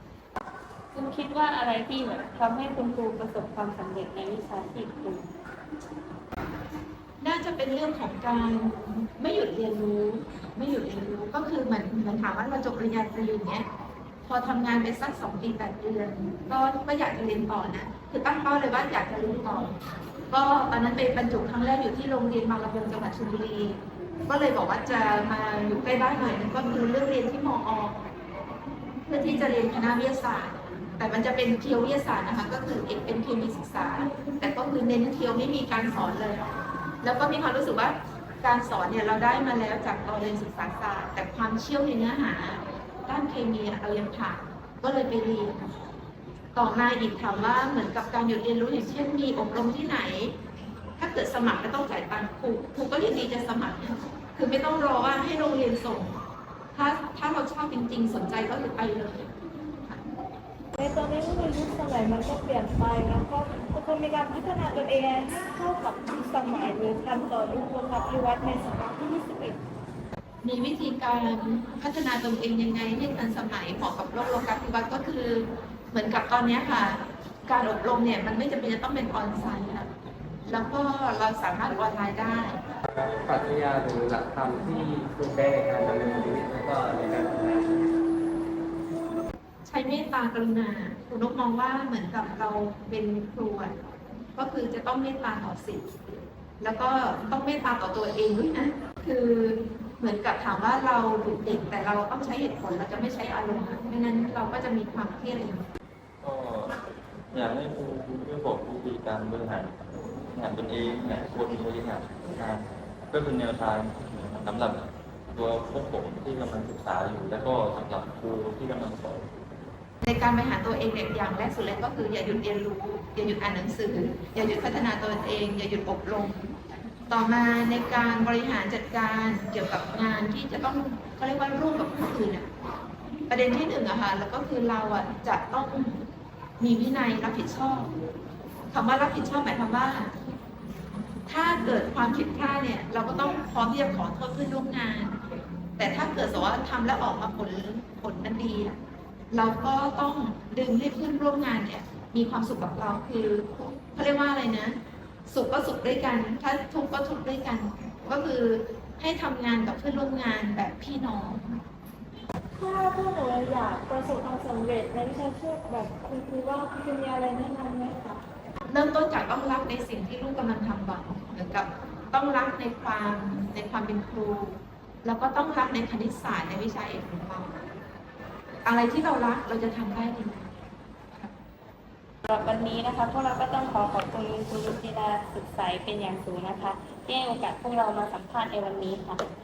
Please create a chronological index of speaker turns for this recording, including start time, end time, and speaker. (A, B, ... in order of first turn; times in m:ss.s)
0:00.9-0:05.3 A
0:07.2-0:13.6 B
0:14.2-0:19.7 B
0:20.3-0:28.0 B
0:29.0-0:45.7 B
0:46.5-0:50.4 B
0:51.0-0:56.1 B
0:56.7-0:59.3 B
1:00.7-1:09.6 C
1:10.4-1:19.9 B
1:20.5-1:22.6 B
1:22.9-1:27.7 D
1:29.6-1:33.7 B
1:34.4-1:45.7 B
1:46.2-1:46.8 E
1:47.3-1:59.3 E
2:00.0-2:06.5 B
2:07.1-2:12.5 B
2:13.3-2:16.0 B
2:16.6-2:17.9 B
2:18.7-2:20.1 B
2:21.3-2:25.2 B
2:25.8-2:28.8 B
2:29.3-2:34.8 B
2:35.3-2:41.6 B
2:42.6-2:48.2 C
2:48.7-2:57.6 B
2:58.6-3:00.6 B
3:02.2-3:09.2 A